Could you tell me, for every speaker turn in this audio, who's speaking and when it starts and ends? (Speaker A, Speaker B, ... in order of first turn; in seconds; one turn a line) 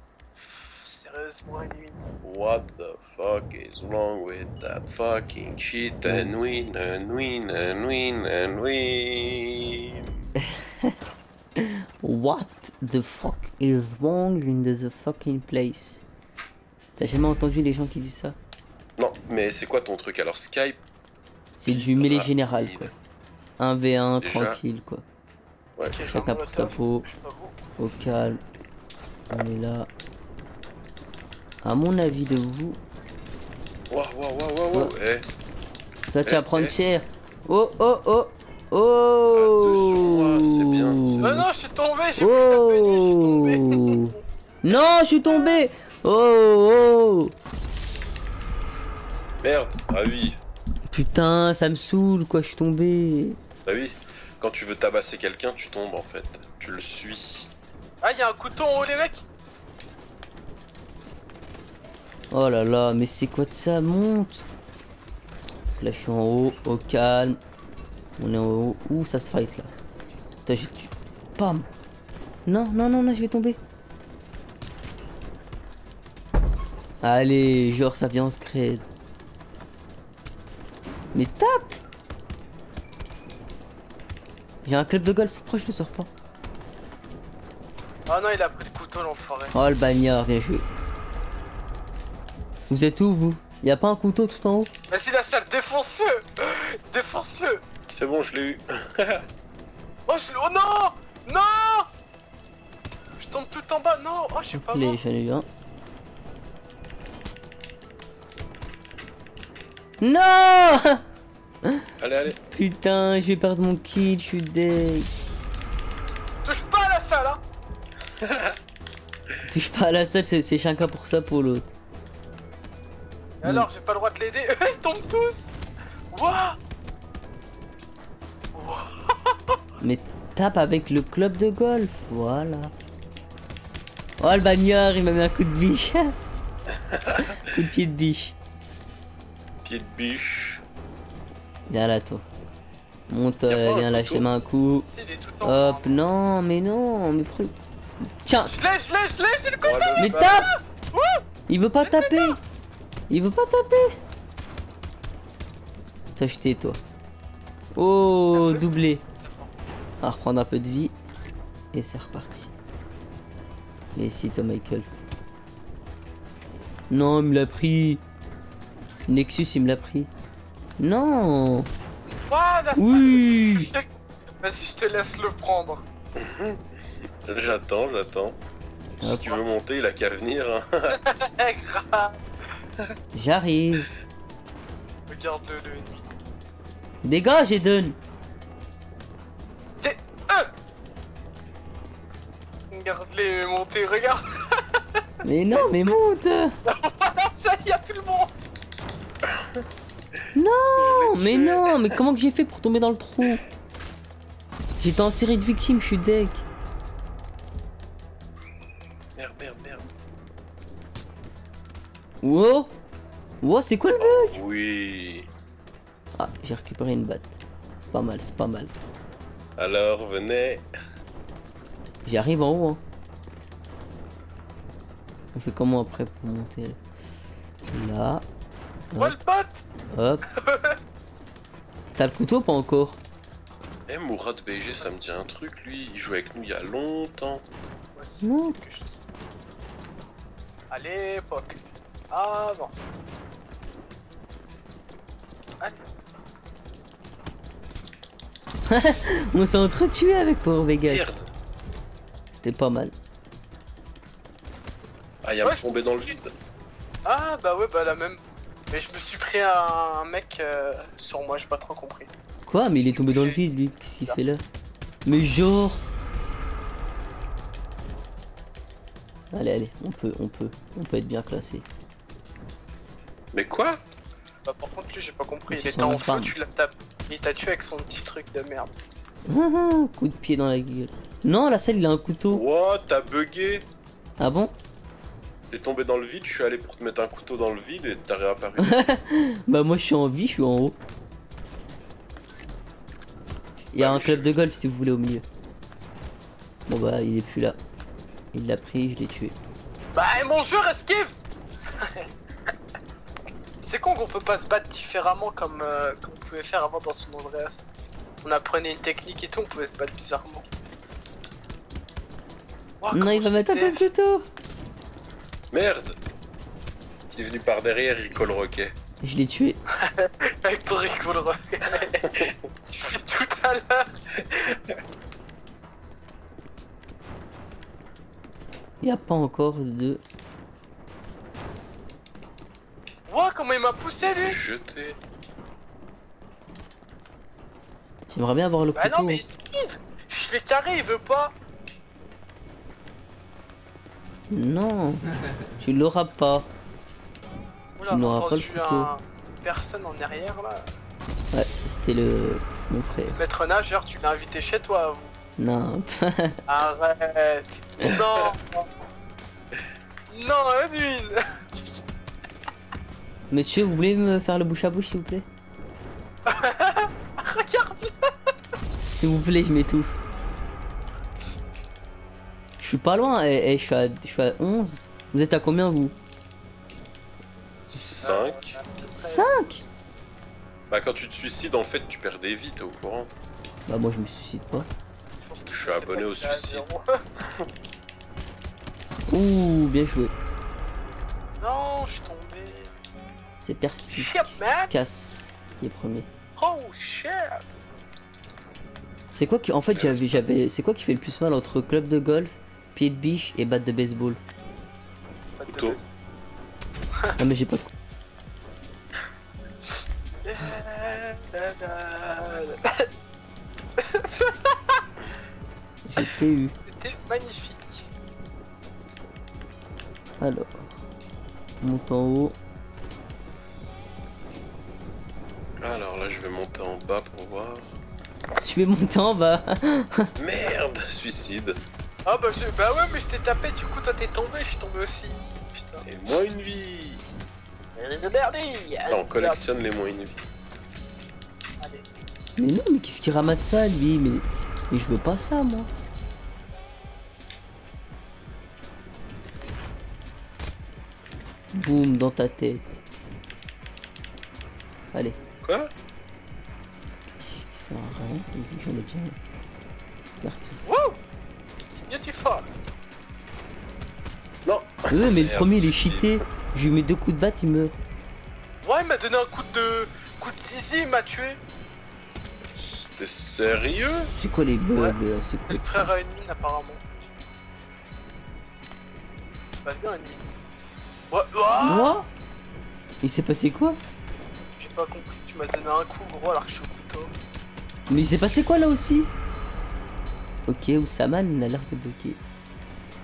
Speaker A: 0.4-2.0
Speaker B: 2.2-9.9
Speaker C: 6.1-6.3
Speaker C: 11.6-16.0
Speaker C: 17.0-18.4
Speaker B: 19.0-20.8
Speaker C: 21.6-22.9
Speaker B: 21.6-22.9
Speaker C: 23.6-25.0
Speaker B: 24.2-24.6
Speaker A: 25.9-27.6
Speaker C: 26.0-27.1
Speaker C: 27.8-28.4
Speaker C: 29.3-29.9
Speaker C: 31.6-32.8
Speaker B: 33.9-35.2
Speaker C: 36.1-41.5
Speaker B: 36.2-36.7
Speaker B: 39.3-41.4
Speaker A: 41.2-45.4
Speaker C: 42.2-47.3
Speaker B: 49.4-50.4
Speaker C: 50.9-53.4
Speaker B: 53.6-57.5
Speaker A: 58.0-59.2
Speaker C: 62.3-64.4
Speaker C: 65.8-67.4
Speaker C: 68.2-69.7
Speaker C: 70.5-71.7
Speaker C: 72.5-73.6
Speaker C: 77.0-78.8
Speaker C: 81.1-81.7
Speaker C: 84.6-86.1
Speaker A: 88.1-89.5
Speaker C: 89.5-90.6
Speaker C: 92.7-94.7
Speaker A: 94.9-97.6
Speaker B: 97.9-99.2
Speaker A: 100.1-101.9
Speaker A: 103.2-105.0
Speaker C: 104.5-105.5
Speaker C: 110.0-111.0
Speaker C: 111.6-115.1
Speaker B: 112.0-112.3
Speaker A: 116.4-117.4
Speaker B: 118.2-118.5
Speaker C: 119.5-121.7
Speaker A: 123.4-125.5
Speaker A: 126.1-126.6
Speaker A: 128.5-129.6
Speaker C: 129.8-132.7
Speaker C: 134.2-136.1
Speaker B: 136.9-137.3
Speaker C: 137.3-138.3
Speaker B: 139.6-140.6
Speaker C: 141.7-142.2
Speaker C: 143.1-144.9
Speaker B: 143.5-144.3
Speaker A: 144.8-146.0
Speaker C: 145.4-147.5
Speaker C: 148.2-148.5
Speaker A: 148.4-151.2
Speaker B: 149.6-150.7
Speaker C: 150.0-150.5
Speaker C: 151.5-152.4
Speaker A: 151.8-152.4
Speaker C: 153.1-153.9
Speaker C: 156.2-156.8
Speaker C: 157.8-159.0
Speaker A: 158.3-159.5
Speaker C: 160.0-160.9
Speaker C: 161.7-162.5
Speaker C: 163.9-164.9
Speaker C: 166.9-168.0
Speaker C: 169.1-170.1
Speaker C: 170.8-171.7
Speaker A: 172.3-173.9
Speaker C: 172.8-173.7
Speaker A: 174.4-175.8
Speaker B: 176.2-176.6
Speaker B: 177.2-178.4
Speaker B: 179.0-181.0
Speaker C: 179.0-179.4
Speaker A: 180.9-182.2
Speaker C: 183.1-183.9
Speaker A: 185.1-186.0
Speaker C: 187.0-187.9
Speaker A: 189.8-190.5
Speaker A: 192.7-195.8
Speaker C: 195.2-196.5
Speaker A: 196.7-198.3
Speaker B: 199.3-199.6
Speaker C: 200.3-203.4
Speaker B: 200.8-201.7
Speaker C: 204.8-206.4
Speaker B: 209.2-209.9
Speaker C: 212.2-212.7
Speaker C: 213.4-214.4
Speaker B: 213.9-215.3
Speaker C: 216.2-218.7
Speaker B: 219.6-220.6
Speaker C: 222.1-222.8
Speaker C: 225.3-226.8
Speaker C: 227.7-228.2
Speaker C: 228.9-229.2
Speaker A: 229.0-229.6
Speaker C: 229.9-230.2
Speaker A: 230.3-230.8
Speaker C: 232.0-233.0
Speaker B: 233.9-237.4
Speaker A: 237.9-239.0
Speaker C: 238.2-238.6
Speaker A: 240.7-241.6
Speaker A: 242.1-242.8
Speaker C: 248.7-251.1
Speaker B: 250.8-251.3
Speaker C: 252.3-252.9
Speaker B: 255.2-256.3
Speaker A: 255.4-256.2
Speaker A: 257.0-258.2
Speaker A: 258.7-262.1
Speaker C: 262.4-264.4
Speaker A: 262.9-263.4
Speaker C: 265.1-265.8
Speaker C: 269.3-271.6
Speaker B: 273.3-273.8
Speaker A: 274.4-278.7
Speaker C: 275.5-276.4
Speaker C: 279.3-282.4
Speaker B: 282.3-283.7
Speaker C: 284.2-284.5
Speaker B: 285.5-288.8
Speaker C: 288.6-290.8
Speaker C: 293.7-295.2
Speaker B: 293.8-294.4
Speaker C: 296.7-297.6
Speaker C: 298.3-299.3
Speaker A: 299.9-301.1
Speaker A: 301.8-302.1
Speaker A: 303.6-307.6
Speaker A: 308.2-310.4
Speaker A: 312.8-313.9
Speaker C: 312.9-314.2
Speaker B: 315.5-315.9
Speaker B: 317.1-318.7
Speaker C: 319.0-319.6
Speaker A: 319.8-324.6
Speaker B: 322.0-322.3
Speaker C: 328.8-330.0
Speaker A: 333.1-334.4
Speaker B: 334.1-335.0
Speaker C: 338.1-339.2
Speaker A: 338.7-341.4
Speaker C: 344.3-345.0
Speaker C: 345.6-346.5
Speaker A: 347.8-350.7
Speaker C: 347.9-348.9
Speaker C: 351.3-353.2
Speaker A: 353.1-355.1
Speaker C: 355.4-356.3
Speaker A: 356.5-358.7
Speaker A: 360.1-361.8
Speaker C: 363.3-365.2
Speaker A: 366.2-368.3
Speaker C: 368.9-369.9
Speaker C: 372.6-375.9
Speaker B: 377.7-378.5
Speaker A: 378.0-379.7
Speaker C: 378.9-379.6
Speaker B: 380.7-383.1
Speaker C: 383.7-384.7
Speaker A: 385.2-386.8
Speaker B: 385.5-386.6
Speaker C: 389.1-390.1
Speaker A: 391.4-392.7
Speaker C: 393.4-396.1
Speaker A: 393.9-394.7
Speaker A: 396.4-397.5
Speaker C: 399.1-404.2
Speaker B: 399.7-400.1
Speaker A: 405.4-405.9
Speaker B: 405.5-405.8
Speaker C: 407.2-407.7
Speaker A: 409.7-412.9
Speaker A: 413.8-414.8
Speaker C: 415.9-416.5
Speaker A: 416.6-417.9
Speaker C: 420.2-420.6
Speaker C: 421.6-422.4
Speaker B: 425.6-427.7
Speaker C: 428.4-430.1
Speaker B: 430.2-431.6
Speaker A: 432.1-435.8
Speaker B: 435.8-437.0
Speaker A: 437.7-439.5
Speaker B: 438.9-440.2
Speaker A: 441.6-441.8
Speaker C: 442.4-445.7
Speaker C: 451.5-452.8
Speaker B: 455.4-455.7
Speaker C: 457.2-459.2
Speaker C: 460.2-460.7
Speaker A: 460.6-461.0
Speaker A: 461.7-462.5
Speaker B: 464.4-466.2
Speaker C: 464.9-467.8
Speaker A: 468.6-471.4
Speaker B: 472.5-474.1
Speaker C: 474.1-475.9
Speaker A: 475.5-476.8
Speaker A: 479.6-480.2
Speaker A: 481.1-482.0
Speaker C: 481.6-482.1
Speaker C: 483.0-483.8
Speaker A: 484.6-487.1
Speaker C: 487.9-489.1
Speaker C: 490.5-492.2